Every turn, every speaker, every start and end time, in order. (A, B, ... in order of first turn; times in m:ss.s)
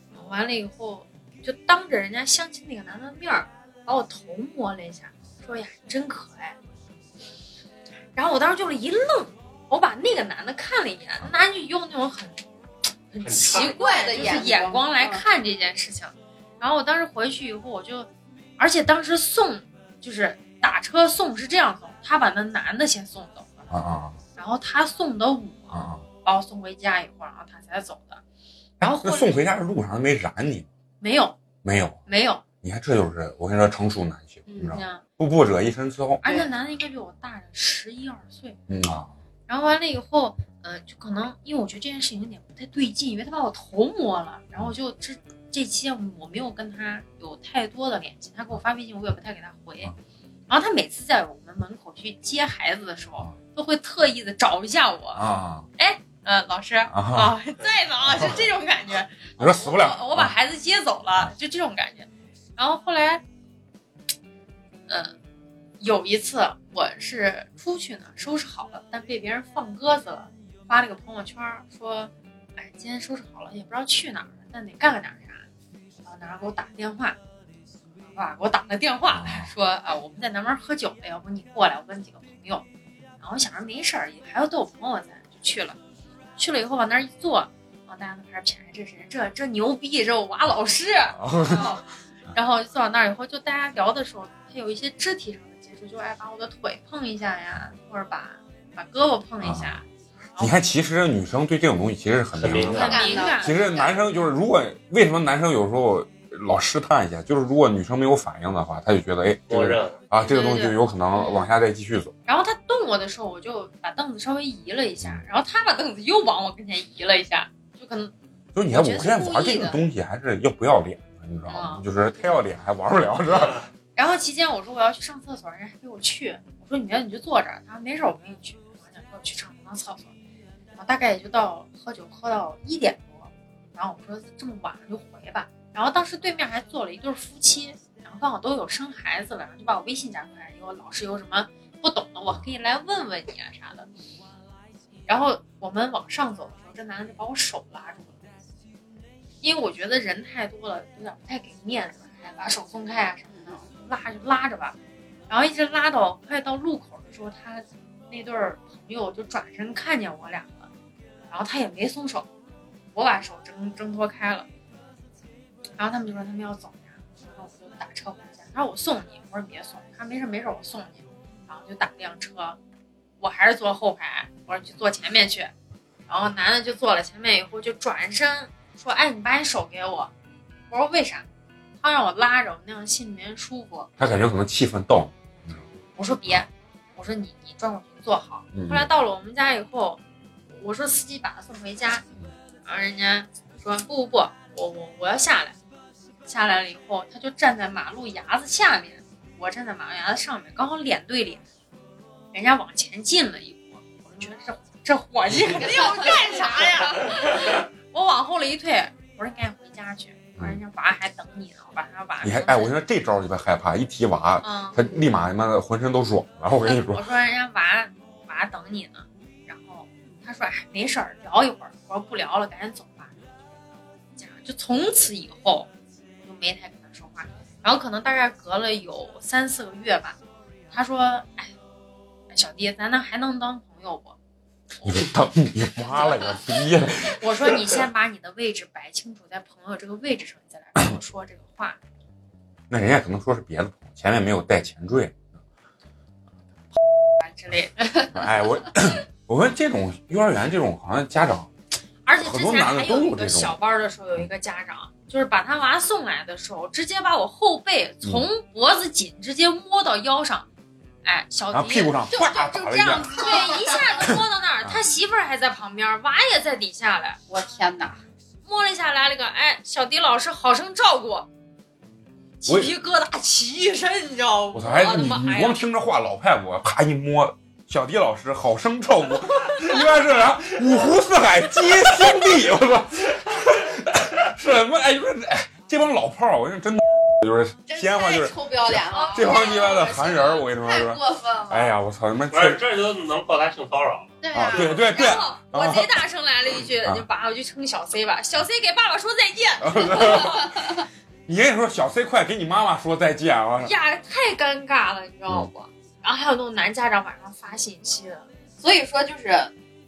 0:00.1-0:06.6 A
0:08.2-0:12.4 A
0:13.1-0:23.7 A
0:13.2-0:14.3 B
0:13.7-0:15.2 C
0:23.7-0:24.2 D
0:24.4-0:28.2 A
0:25.7-0:26.0 D
0:28.8-0:29.4 A
0:28.8-0:30.7 D
0:31.0-0:31.4 A
0:31.6-0:32.0 D
0:32.1-0:32.4 A
0:32.6-0:36.2 D
0:34.5-0:34.8 C
0:34.7-0:35.0 A
0:36.2-0:38.6 A
0:38.7-0:39.1 D
0:39.5-0:49.9 A
0:50.5-1:03.2 A
0:55.2-0:55.7 D
0:56.9-0:57.4 D
0:59.4-1:00.3 D
1:04.9-1:05.1 A
1:05.8-1:15.4 A
1:16.0-1:17.2 A
1:18.1-1:22.6 A
1:19.1-1:19.5 D
1:23.2-1:25.8 A
1:26.4-1:31.8 A
1:31.2-1:31.8 D
1:32.3-1:40.6 A
1:39.4-1:39.8 D
1:40.4-1:52.1 D
1:42.4-1:43.0 B
1:42.7-1:43.6 A
1:42.8-1:44.0 C
1:49.5-1:50.0 B
1:50.2-1:50.8 A
1:52.3-1:58.1 A
1:58.6-2:03.7 D
1:58.7-1:59.8 A
2:01.5-2:01.8 A
2:04.0-2:10.1 A
2:10.8-2:23.9 A
2:25.1-2:28.3 A
2:29.4-2:34.8 A
2:33.3-2:33.6 C
2:35.3-2:40.7 A
2:41.3-2:42.3 A
2:42.9-2:44.5 A
2:45.8-2:52.6 A
2:53.2-2:55.5 A
2:56.1-3:00.1 A
3:00.7-3:01.3 A
3:01.8-3:03.9 A
3:04.0-3:05.6 D
3:06.0-3:12.0 A
3:08.5-3:08.9 D
3:12.6-3:15.6 A
3:16.3-3:21.4 A
3:22.3-3:32.7 A
3:32.2-3:37.1 D
3:34.4-3:34.8 A
3:36.6-3:43.2 A
3:44.2-3:45.7 A
3:46.2-3:50.2 A
3:50.7-3:51.5 A
3:52.3-3:54.2 A
3:54.8-3:55.1 A
3:54.8-3:57.7 D
3:55.8-3:56.4 A
3:57.0-4:01.8 A
4:02.7-4:05.2 D
4:07.2-4:08.3 A
4:08.1-4:11.5 D
4:12.0-4:20.5 A
4:12.2-4:13.6 D
4:21.0-4:22.0 A
4:21.5-4:23.4 D
4:22.1-4:24.1 C
4:23.1-4:27.2 A
4:24.0-4:24.8 D
4:27.3-4:28.0 C
4:28.4-4:31.3 A
4:32.4-4:35.6 A
4:32.5-4:32.7 D
4:34.5-4:52.6 D
4:47.7-4:51.7 C
4:48.9-4:50.4 A
4:52.3-4:54.1 B
4:54.2-4:55.0 C
4:54.3-4:56.0 D
4:54.5-5:00.8 A
4:56.6-4:57.1 D
4:59.6-5:00.6 D
5:00.2-5:00.6 C
5:01.3-5:03.7 D
5:03.6-5:08.2 A
5:08.6-5:09.5 C